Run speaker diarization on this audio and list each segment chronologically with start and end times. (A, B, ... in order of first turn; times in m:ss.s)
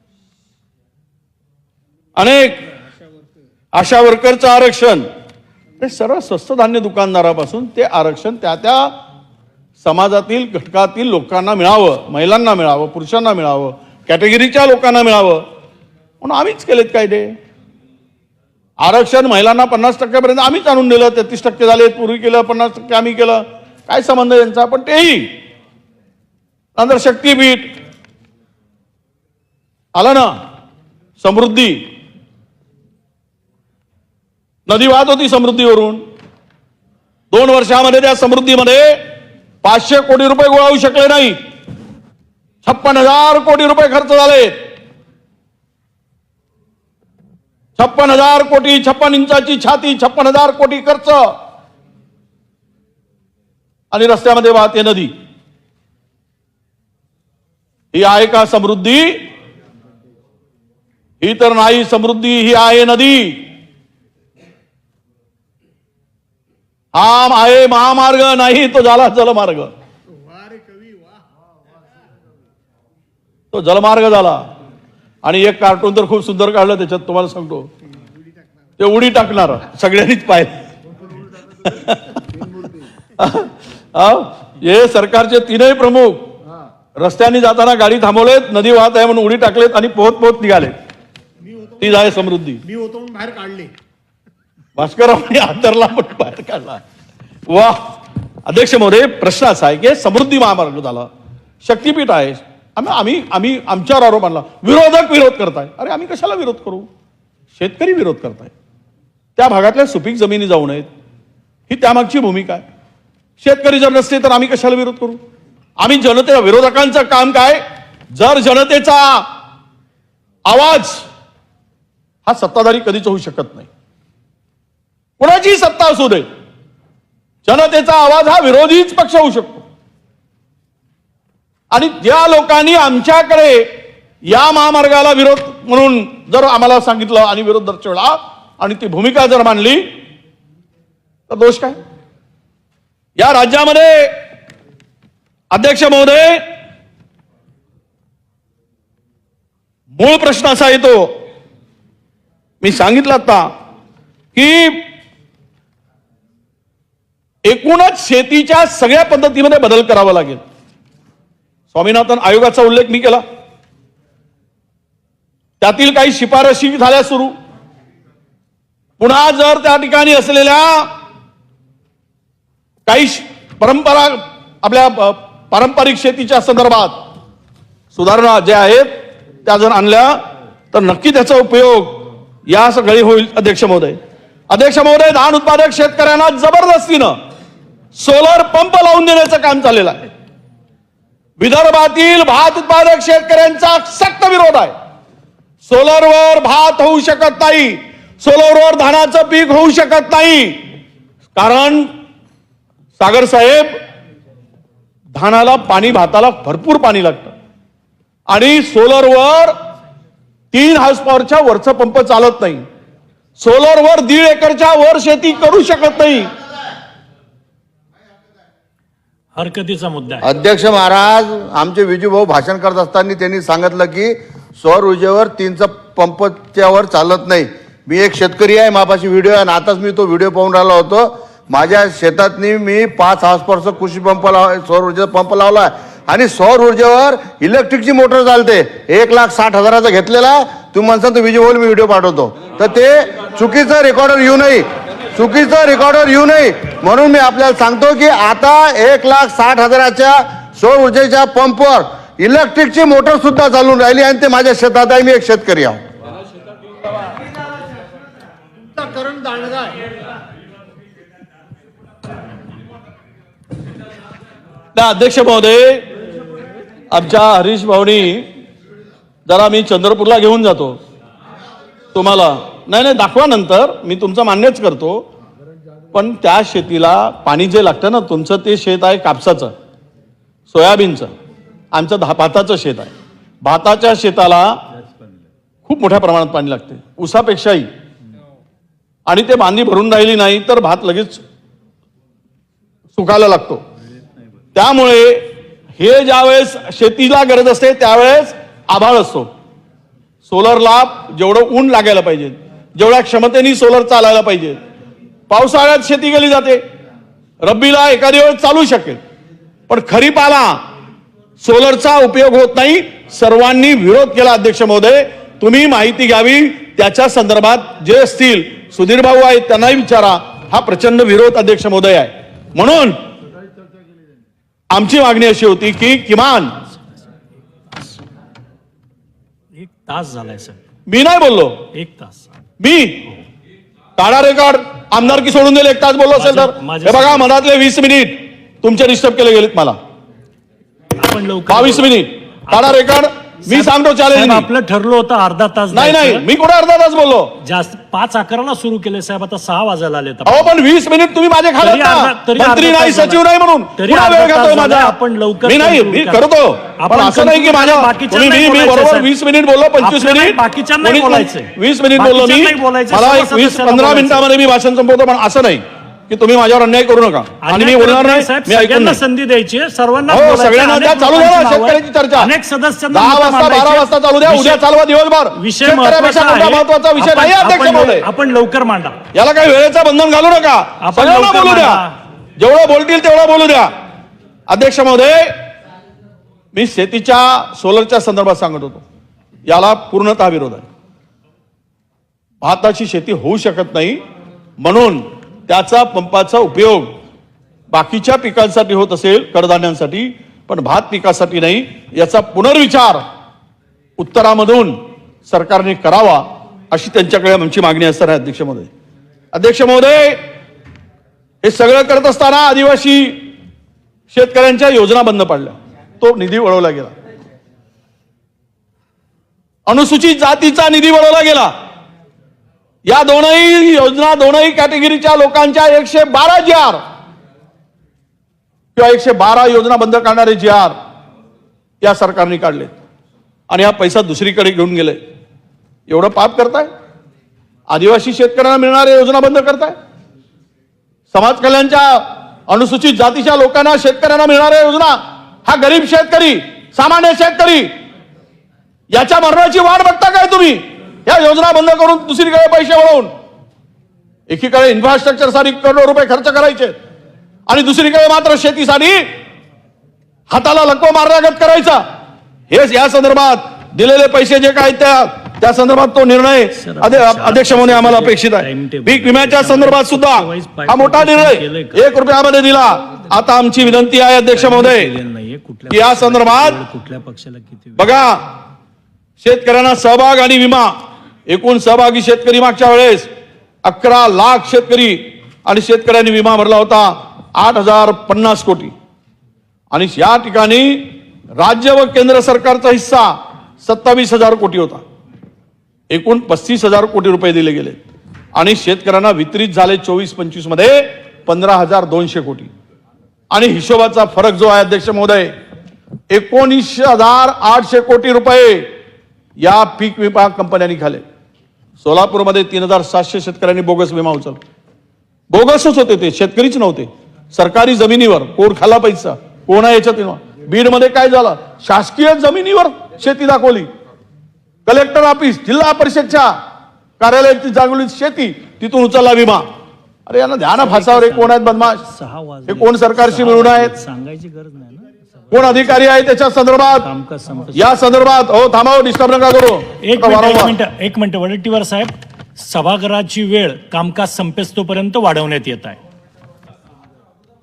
0:02.2-0:02.6 A
0:03.7-0:05.1 A
0:05.8-0:08.9 A
0:09.8-0:15.4 A
0:16.2-0:17.3 A
0:18.8-0:25.3 A
0:26.8-0:27.7 A
0:29.9-0:30.3 A
0:31.2-0:31.8 A
0:34.7-0:36.0 A
0:37.3-0:39.0 A
0:39.6-0:41.4 A
0:42.6-0:44.5 A
0:47.8-0:51.3 A
0:53.9-0:55.1 A
0:57.9-0:59.2 A
1:01.2-1:03.4 A
1:06.9-1:09.7 A
1:10.2-1:11.2 B
1:13.5-1:14.4 A
1:15.2-1:17.7 A
1:18.8-1:20.6 A
1:21.6-1:22.2 A
1:22.4-1:22.8 B
1:23.2-1:26.2 A
1:27.0-1:30.7 A
1:31.5-1:32.0 B
1:31.8-1:32.6 A
1:32.6-1:33.7 B
1:34.8-1:36.8 A
1:37.5-1:37.8 A
1:38.4-1:41.1 A
1:41.6-1:46.9 A
1:47.6-1:48.5 A
1:49.4-1:50.9 A
1:51.7-1:52.6 A
1:53.4-1:55.2 A
1:55.8-1:59.3 A
2:00.4-2:01.0 A
2:02.2-2:03.7 A
2:05.2-2:06.2 A
2:07.4-2:09.6 A
2:11.7-2:13.7 A
2:14.2-2:19.8 A
2:21.3-2:21.8 A
2:23.2-2:24.2 A
2:25.5-2:26.4 A
2:30.0-2:31.2 A
2:32.6-2:33.5 A
2:34.3-2:34.9 A
2:37.4-2:40.4 A
2:41.7-2:43.2 A
2:45.6-2:47.3 A
2:49.0-2:50.9 A
2:52.8-2:57.0 A
2:57.9-3:04.0 A
3:04.5-3:07.2 A
3:07.9-3:10.1 A
3:11.4-3:14.7 A
3:15.6-3:20.6 A
3:21.3-3:21.9 A
3:23.0-3:23.8 A
3:25.1-3:27.3 A
3:28.3-3:29.6 A
3:30.5-3:32.6 A
3:33.4-3:36.3 A
3:39.3-3:40.2 C
3:40.2-4:15.8 D
4:18.7-4:19.8 B
4:24.7-4:25.8 A
4:26.9-4:28.3 A
4:29.2-4:30.8 A
4:31.9-4:35.0 A
4:35.9-4:39.5 A
4:40.5-4:41.1 A
4:41.7-4:44.6 A
4:45.6-4:47.7 A
4:49.1-4:51.2 A
4:52.9-4:53.6 A
4:54.5-4:55.2 A
4:55.8-4:59.3 A
5:00.2-5:04.6 A
5:05.3-5:06.6 A
5:07.4-5:09.0 A
5:09.7-5:10.6 A
5:11.4-5:23.0 A
5:24.7-5:26.6 A
5:29.5-5:30.6 C
5:30.9-5:31.6 A
5:31.7-5:32.3 C
5:32.6-5:33.1 A
5:34.0-5:39.8 A
5:36.2-5:37.2 C
5:41.0-5:41.9 C
5:41.5-5:44.5 A
5:42.5-5:42.8 C
5:43.5-5:46.2 C
5:45.7-5:47.4 A
5:47.4-5:50.5 C
5:50.2-6:09.0 A
5:51.6-5:53.2 C
5:53.8-5:56.2 C
5:56.8-5:59.1 C
5:59.8-6:04.2 C
6:07.4-6:14.6 C
6:10.1-6:12.3 A
6:12.9-6:18.0 A
6:15.4-6:19.0 C
6:19.1-6:21.8 A
6:20.8-6:21.9 C
6:22.4-6:23.7 A
6:24.5-6:25.4 A
6:26.5-6:28.8 A
6:29.5-6:30.7 A
6:32.4-6:34.0 A
6:34.6-6:36.9 A
6:37.7-6:43.0 A
6:44.0-6:48.7 A
6:49.3-6:50.2 A
6:51.4-6:53.2 A
6:54.1-6:56.9 A
6:59.7-7:01.5 A
7:02.9-7:06.8 A
7:08.8-7:10.8 A
7:11.8-7:12.7 A
7:13.5-7:15.0 A
7:15.9-7:16.7 A
7:17.7-7:19.8 A
7:21.1-7:27.7 A
7:28.9-7:33.1 A
7:34.3-7:36.8 A
7:37.5-7:39.0 A
7:40.3-7:41.8 A
7:42.5-7:54.9 A
7:46.5-7:51.8 C
7:54.3-7:57.9 C
7:55.7-7:56.6 A
7:57.8-7:58.2 A
7:59.2-8:00.7 A
8:01.3-8:03.1 A
8:03.6-8:08.7 A
8:09.7-8:14.8 A
8:15.9-8:17.8 A
8:18.4-8:22.5 A
8:23.3-8:25.3 A
8:26.1-8:28.7 A
8:29.4-8:31.0 A
8:31.8-8:34.4 A
8:35.3-8:43.7 A
8:44.6-8:46.3 A
8:47.0-8:49.4 A
8:50.1-8:51.8 A
8:50.6-8:55.0 C
8:52.5-8:53.7 A
8:55.3-8:56.8 A
8:56.8-8:57.8 C
8:57.5-9:00.5 A
8:59.8-9:05.8 C